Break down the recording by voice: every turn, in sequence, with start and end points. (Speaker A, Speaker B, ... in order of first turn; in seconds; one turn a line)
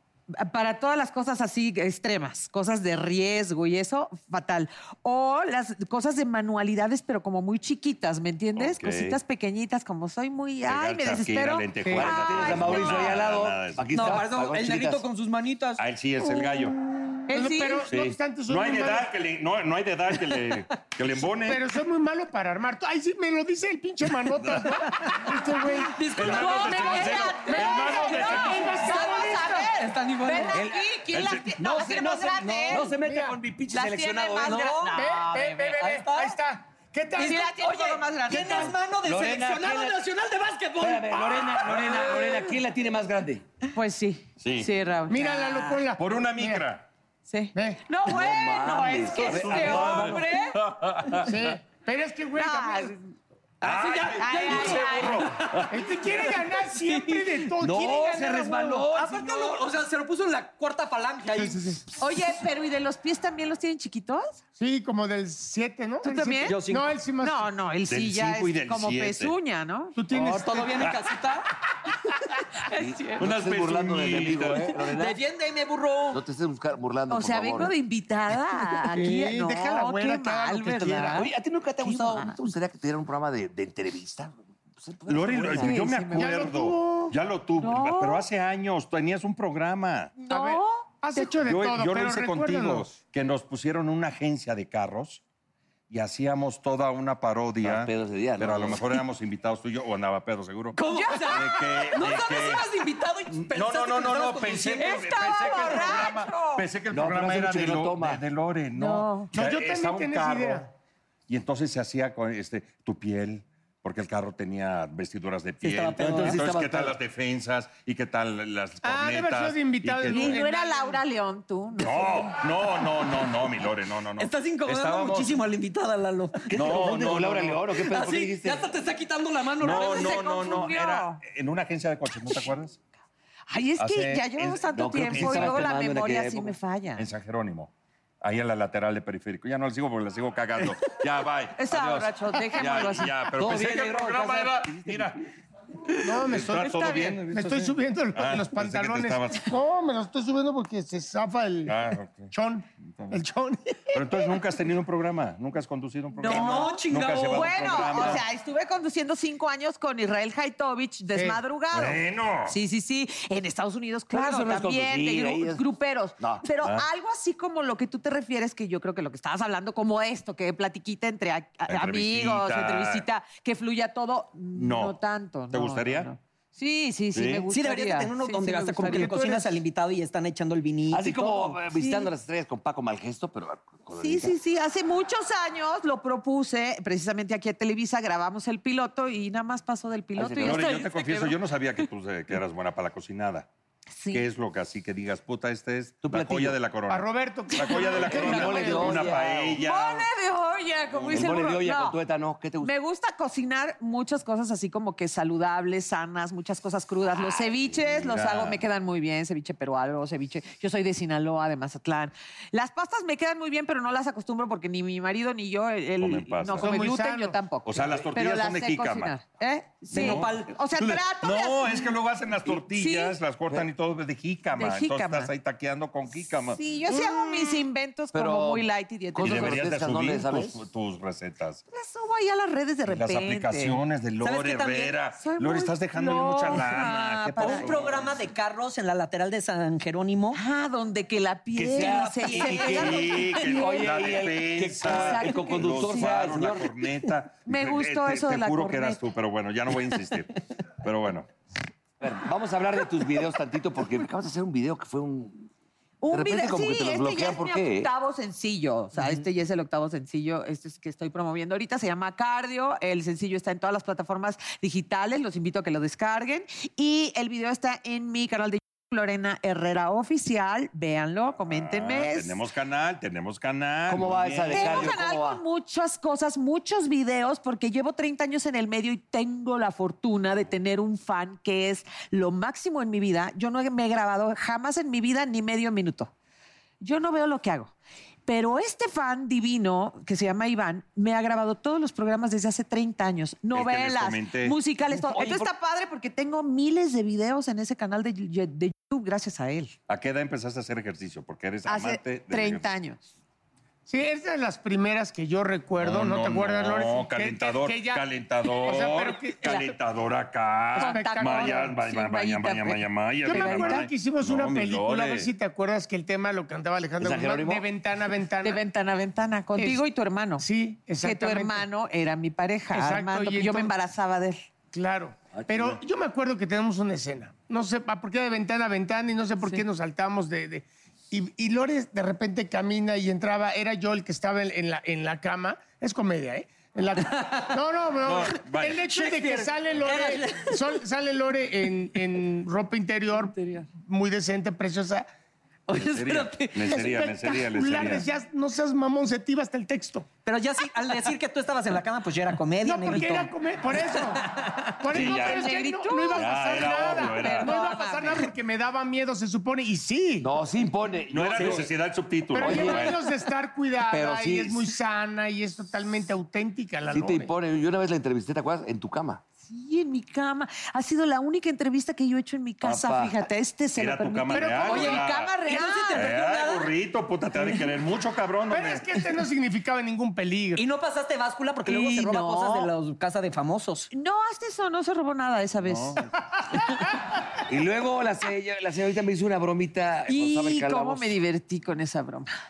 Speaker A: 0.4-13.2
Speaker B: 8.6-9.2
Speaker B: 10.7-13.9
Speaker C: 11.9-15.0
Speaker D: 13.9-15.8
Speaker B: 15.8-16.8
Speaker E: 17.3-19.1
Speaker A: 17.3-17.9
Speaker B: 17.9-21.6
Speaker E: 21.4-26.1
Speaker B: 24.4-24.8
Speaker D: 25.9-27.5
Speaker A: 26.0-32.9
Speaker B: 26.1-28.7
Speaker E: 27.5-29.7
Speaker D: 28.9-30.6
Speaker C: 30.5-30.9
Speaker B: 31.1-31.5
Speaker C: 31.6-35.0
Speaker E: 32.7-33.4
Speaker A: 33.7-35.7
Speaker D: 34.5-34.9
Speaker E: 35.0-38.7
Speaker D: 35.8-36.3
Speaker A: 37.2-38.7
Speaker D: 37.2-42.1
Speaker C: 39.0-40.0
Speaker C: 40.8-43.4
Speaker A: 43.7-45.8
Speaker B: 44.4-44.7
Speaker E: 45.1-46.6
Speaker B: 46.0-46.9
Speaker A: 47.3-50.6
Speaker E: 47.5-47.8
Speaker C: 48.1-50.3
Speaker B: 49.2-51.4
Speaker E: 51.3-52.9
Speaker A: 52.4-53.0
Speaker D: 53.6-55.6
Speaker B: 53.6-55.4
Speaker A: 54.1-55.3
Speaker E: 55.7-58.8
Speaker D: 56.9-57.1
Speaker C: 57.6-59.5
Speaker D: 58.8-61.6
Speaker E: 61.3-62.0
Speaker A: 62.0-64.4
Speaker E: 64.6-67.5
Speaker A: 66.0-66.7
Speaker D: 66.5-66.9
Speaker A: 67.2-70.0
Speaker B: 67.9-69.3
Speaker E: 70.0-70.9
Speaker D: 70.1-71.5
Speaker C: 72.8-75.2
Speaker A: 72.9-73.2
Speaker B: 73.2-74.8
Speaker D: 74.9-76.2
Speaker C: 76.1-77.7
Speaker A: 77.1-82.4
Speaker E: 78.8-81.2
Speaker C: 81.2-85.8
Speaker B: 85.1-90.1
Speaker A: 85.4-86.4
Speaker E: 86.1-87.1
Speaker A: 87.6-88.2
Speaker A: 90.2-91.2
Speaker E: 90.3-92.9
Speaker B: 91.4-95.2
Speaker B: 95.9-100.8
Speaker C: 97.6-99.0
Speaker D: 100.8-105.7
Speaker A: 100.9-101.6
Speaker B: 101.3-102.6
Speaker B: 103.3-110.6
Speaker A: 104.7-106.7
Speaker C: 106.9-108.2
Speaker A: 108.8-109.3
Speaker E: 109.3-110.7
Speaker B: 111.3-120.4
Speaker D: 115.6-116.4
Speaker C: 116.0-117.0
Speaker E: 118.8-121.0
Speaker A: 120.0-122.4
Speaker B: 121.8-125.4
Speaker D: 124.2-126.7
Speaker C: 126.5-128.7
Speaker B: 126.5-127.6
Speaker D: 127.8-130.4
Speaker B: 129.6-132.8
Speaker A: 129.7-131.2
Speaker A: 133.5-137.1
Speaker B: 133.8-135.7
Speaker C: 134.7-136.6
Speaker B: 137.0-145.2
Speaker A: 141.6-143.2
Speaker C: 143.4-145.1
Speaker E: 146.0-151.8
Speaker B: 146.2-149.5
Speaker B: 151.7-152.3
Speaker E: 152.3-154.3
Speaker B: 152.9-153.2
Speaker B: 153.9-158.2
Speaker D: 156.2-158.2
Speaker A: 156.2-156.7
Speaker A: 157.3-179.4
Speaker E: 161.1-161.4
Speaker B: 161.7-162.6
Speaker C: 164.1-165.6
Speaker C: 166.2-166.4
Speaker B: 166.6-166.9
Speaker B: 171.7-173.1
Speaker B: 174.6-175.0
Speaker B: 175.5-176.1
Speaker B: 177.1-177.5
Speaker D: 177.5-181.6
Speaker E: 178.9-179.5
Speaker C: 180.9-184.3
Speaker A: 181.7-182.1
Speaker A: 183.9-191.4
Speaker C: 190.2-190.6
Speaker B: 190.4-193.5
Speaker A: 194.0-194.2
Speaker B: 194.1-200.1
Speaker C: 196.0-196.6
Speaker E: 196.9-199.1
Speaker A: 197.6-198.9
Speaker C: 198.1-199.6
Speaker A: 199.6-202.0
Speaker B: 200.9-201.5
Speaker C: 201.1-202.7
Speaker A: 202.6-221.9
Speaker B: 207.7-208.6
Speaker B: 216.0-216.7
Speaker E: 216.6-217.4
Speaker B: 217.6-219.2
Speaker D: 219.9-220.5
Speaker B: 219.9-226.6
Speaker A: 222.7-223.2
Speaker A: 224.6-225.3
Speaker A: 226.5-229.6
Speaker E: 226.9-227.6
Speaker C: 228.1-230.6
Speaker B: 229.2-231.6
Speaker A: 231.7-233.8
Speaker B: 232.9-238.0
Speaker D: 234.2-234.9
Speaker A: 235.2-237.8
Speaker D: 236.8-240.4
Speaker A: 240.3-244.1
Speaker C: 241.6-246.7
Speaker D: 242.2-242.7
Speaker B: 242.6-251.3
Speaker A: 244.8-246.3
Speaker A: 247.5-249.0
Speaker C: 252.0-255.5
Speaker A: 256.0-272.4
Speaker C: 256.1-257.9
Speaker B: 271.4-275.0
Speaker C: 273.9-275.4
Speaker A: 274.5-286.1
Speaker A: 286.8-287.7
Speaker A: 288.3-299.8
Speaker B: 293.5-294.6
Speaker C: 294.9-295.5
Speaker B: 299.9-302.8
Speaker A: 301.6-303.0
Speaker E: 303.9-308.0
Speaker B: 305.8-315.3
Speaker E: 308.6-309.7
Speaker A: 310.8-313.9
Speaker E: 310.8-311.7
Speaker E: 313.3-318.6
Speaker C: 317.0-317.6
Speaker A: 318.4-320.5
Speaker E: 319.6-319.8
Speaker E: 320.4-321.6
Speaker A: 321.0-324.4
Speaker E: 322.7-323.7
Speaker E: 324.7-345.1
Speaker C: 325.3-325.8
Speaker D: 337.1-337.6
Speaker B: 338.0-338.8
Speaker D: 338.9-340.6
Speaker D: 343.4-343.6
Speaker D: 345.7-346.8
Speaker B: 345.8-348.1
Speaker E: 346.8-350.1
Speaker D: 350.2-353.3
Speaker E: 352.6-354.2
Speaker E: 354.8-360.3
Speaker B: 354.9-355.5
Speaker A: 354.9-358.3
Speaker B: 356.1-357.5
Speaker C: 360.2-361.7
Speaker B: 361.1-363.0
Speaker E: 362.3-367.3
Speaker C: 362.4-362.9
Speaker C: 363.9-364.7
Speaker C: 366.9-369.2
Speaker A: 369.4-376.1
Speaker C: 372.6-373.2
Speaker B: 373.8-375.4
Speaker E: 374.4-374.9
Speaker D: 374.6-376.7
Speaker B: 375.9-378.9
Speaker E: 378.5-380.6
Speaker D: 380.6-383.9
Speaker A: 381.7-382.7
Speaker A: 383.9-386.0
Speaker B: 385.6-386.0
Speaker C: 387.5-391.1
Speaker A: 390.1-392.3